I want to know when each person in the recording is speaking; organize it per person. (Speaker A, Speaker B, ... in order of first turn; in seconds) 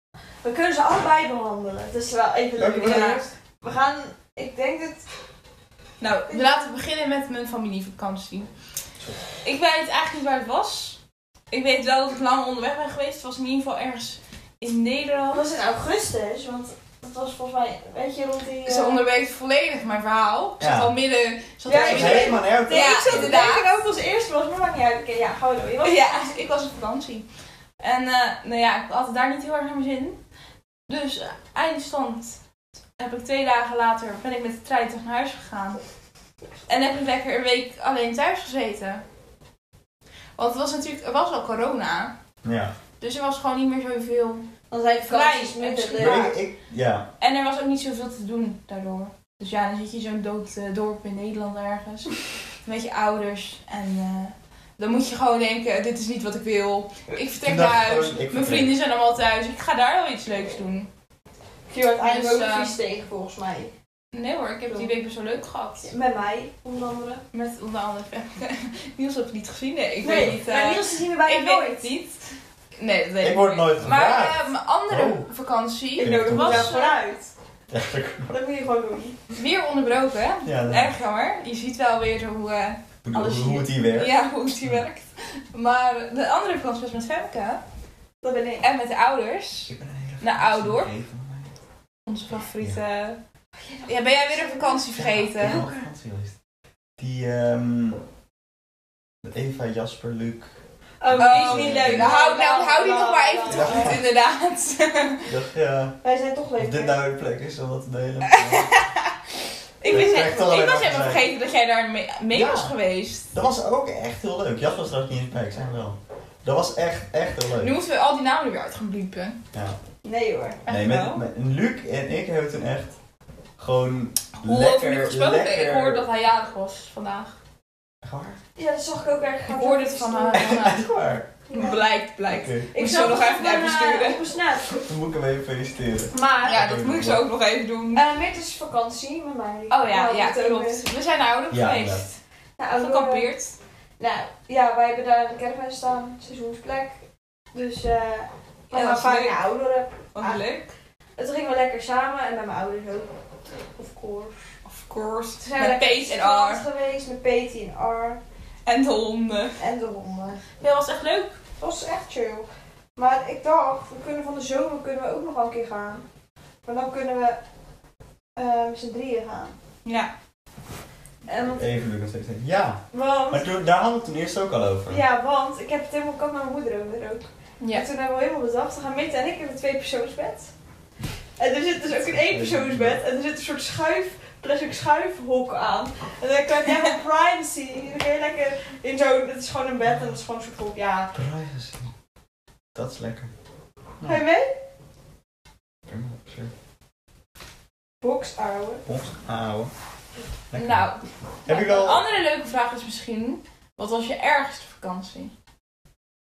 Speaker A: 0.4-5.1, 6.3-6.6, 15.3-19.0, 21.7-26.4, 44.7-46.4, 61.7-63.7, 64.7-64.9, 65.8-67.2, 70.0-71.9, 76.0-77.3, 78.3-79.3, 88.2-88.7, 93.5-94.9, 95.4-95.9, 101.0-104.0, 106.0-107.0, 120.0-120.6, 128.6-130.6, 131.5-131.8, 132.7-134.8, 136.1-136.6, 137.9-140.9, 142.6-143.3, 144.0-147.0, 147.5-150.4, 151.2-153.1, 153.8-154.5, 155.4-158.2, 159.6-160.4, 161.6-166.1, 166.7-167.4, 168.4-169.6, 171.3-171.8, 172.9-173.5, 174.9-180.5, 181.4-191.1, 194.0-194.5, 198.0-198.8
Speaker B: 2.6-3.3, 20.6-20.9, 21.7-23.6, 42.4-42.8, 46.0-47.1, 57.4-58.8, 73.2-75.3, 76.0-76.8, 77.7-78.4, 80.4-80.9, 83.0-84.1, 89.7-91.5, 94.9-96.4, 97.0-98.0, 99.2-100.5, 101.1-102.1, 103.5-104.0, 105.2-106.0, 106.6-108.7, 109.8-111.3, 112.3-112.7, 113.3-117.8, 120.7-123.0, 123.6-126.1, 128.0-128.4, 130.3-131.3, 132.3-132.7, 134.7-137.3, 141.5-142.1, 171.5-175.0, 182.1-183.0, 191.1-191.9, 192.8-193.3, 195.9-196.5, 198.9-199.7, 200.5-200.8, 201.5-202.0
Speaker C: 2.8-3.2, 6.0-8.5, 9.4-11.0, 11.5-15.4, 18.7-23.7, 25.8-27.2, 27.8-30.2, 30.9-32.4, 33.0-35.8, 36.7-39.0, 40.4-42.1, 43.0-44.5, 45.1-46.3, 47.2-60.9, 62.0-62.7, 64.1-65.9, 67.3-72.2, 72.8-77.0, 79.3-87.6, 88.6-90.9, 92.1-93.2, 93.9-95.7, 101.2-105.3, 108.3-109.1, 109.8-113.3, 117.5-119.4, 120.7-121.2, 124.4-127.4, 129.5-130.8, 131.5-134.3, 136.4-138.0, 139.7-142.2, 142.8-143.6, 148.7-149.5, 150.1-150.7, 154.7-156.6, 158.7-159.6, 160.6-161.4, 169.8-170.1, 200.5-205.3